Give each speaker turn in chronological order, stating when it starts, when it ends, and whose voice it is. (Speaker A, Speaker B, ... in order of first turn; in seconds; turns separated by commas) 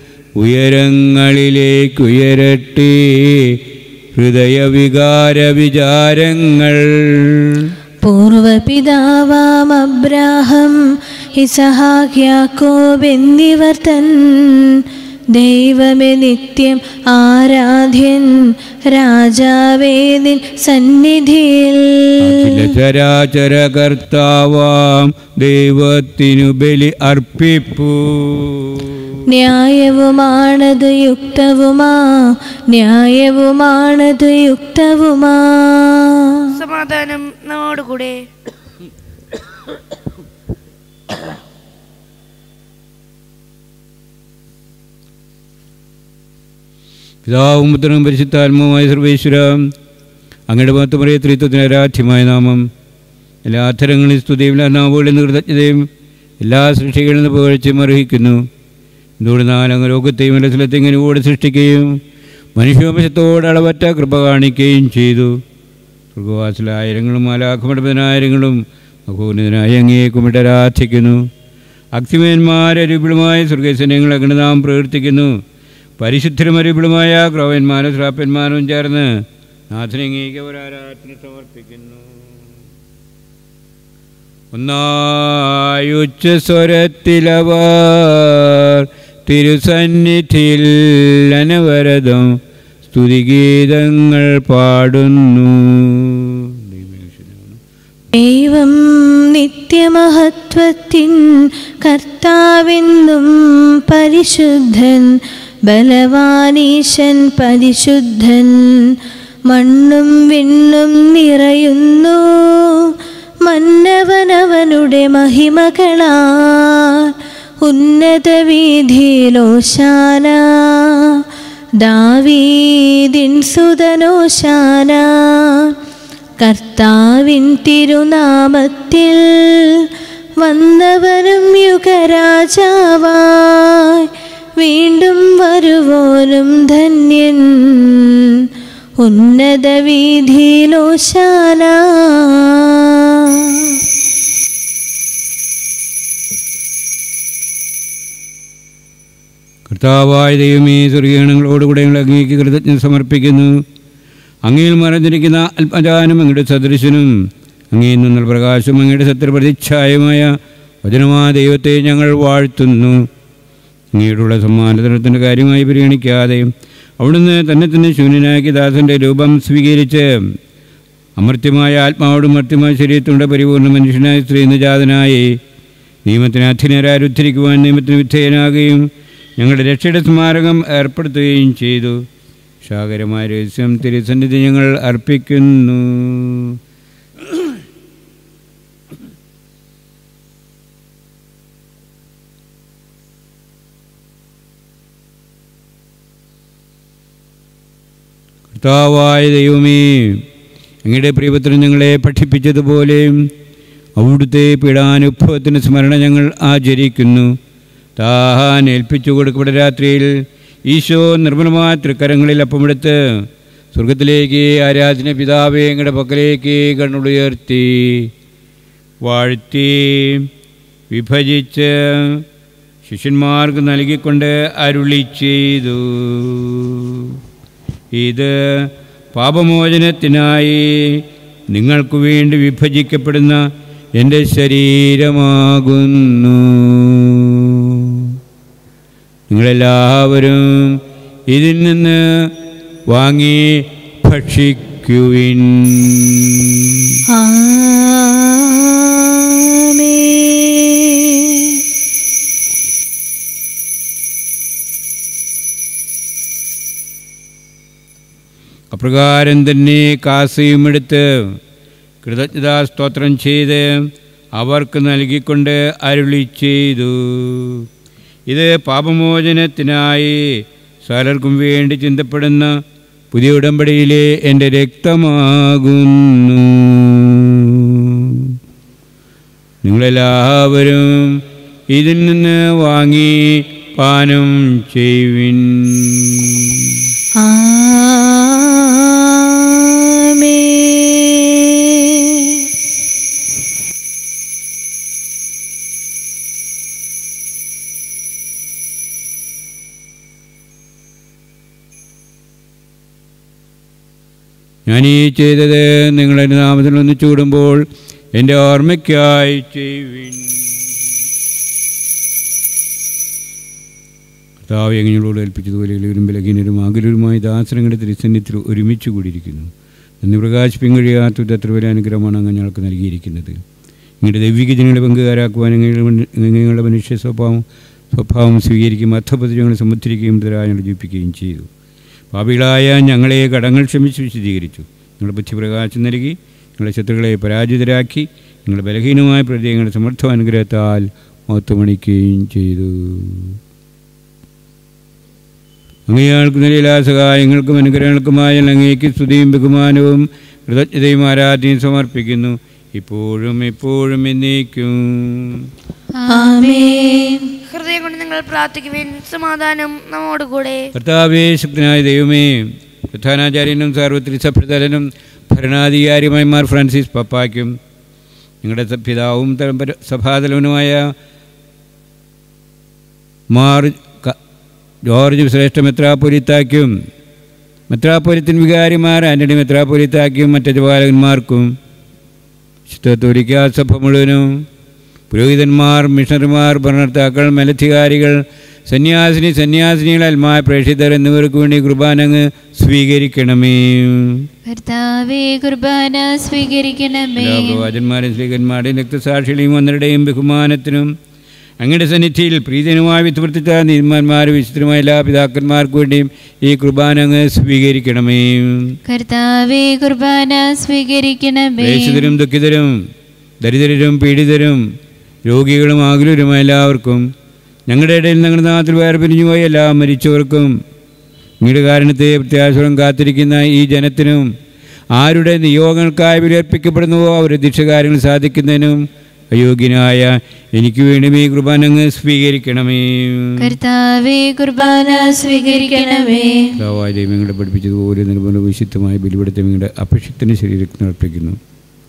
Speaker A: 0.4-7.7, Speaker B: 8.0-10.8, Speaker B: 11.4-22.6, Speaker A: 22.2-29.2, Speaker B: 29.3-36.5, Speaker C: 36.5-38.2, Speaker A: 47.2-49.7, Speaker A: 50.5-52.7, Speaker A: 53.5-55.9, Speaker A: 56.4-58.5, Speaker A: 59.2-62.0, Speaker A: 62.6-65.4, Speaker A: 66.2-71.3, Speaker A: 71.9-75.3, Speaker A: 76.0-82.4, Speaker A: 84.5-97.6, Speaker B: 98.1-108.9, Speaker B: 109.5-112.9, Speaker B: 113.5-121.2, Speaker B: 121.8-125.8, Speaker B: 126.4-129.9, Speaker B: 130.4-138.4, Speaker B: 139.0-143.8, Speaker A: 149.7-153.6, Speaker A: 154.5-157.1, Speaker A: 157.7-163.1, Speaker A: 163.9-170.3, Speaker A: 171.2-175.4, Speaker A: 176.1-178.9, Speaker A: 179.4-182.1, Speaker A: 182.6-186.6, Speaker A: 187.3-187.6, Speaker A: 198.5-200.2, Speaker A: 200.8-203.3, Speaker A: 204.0-207.3, Speaker A: 208.0-218.1, Speaker A: 219.0-220.3, Speaker A: 220.9-222.2, Speaker A: 222.8-227.2, Speaker A: 227.9-233.4, Speaker A: 234.0-238.2, Speaker A: 239.3-242.3, Speaker A: 242.9-247.0, Speaker B: 247.1-251.6, Speaker A: 258.7-261.4, Speaker A: 262.0-267.7, Speaker A: 268.3-272.6, Speaker A: 273.1-278.4, Speaker A: 279.6-286.9, Speaker B: 287.2-292.4, Speaker A: 304.7-310.7, Speaker A: 314.4-319.5, Speaker A: 320.0-323.4, Speaker A: 324.0-331.5, Speaker A: 332.1-343.4, Speaker A: 345.9-355.5, Speaker D: 355.9-356.6, Speaker B: 356.1-357.3, Speaker C: 357.5-360.7, Speaker A: 360.7-367.6, Speaker A: 368.4-370.9, Speaker A: 373.3-374.2, Speaker A: 374.9-376.7, Speaker A: 377.7-381.6, Speaker A: 382.7-384.4, Speaker A: 385.1-394.3, Speaker D: 394.5-397.6, Speaker A: 397.2-400.9, Speaker A: 401.6-408.8, Speaker D: 408.9-412.1, Speaker A: 411.6-412.8, Speaker A: 413.4-414.6, Speaker A: 415.3-417.1, Speaker A: 417.7-420.5, Speaker A: 421.4-424.3, Speaker A: 424.9-433.6, Speaker D: 433.4-436.2, Speaker B: 434.6-436.5, Speaker A: 436.6-441.4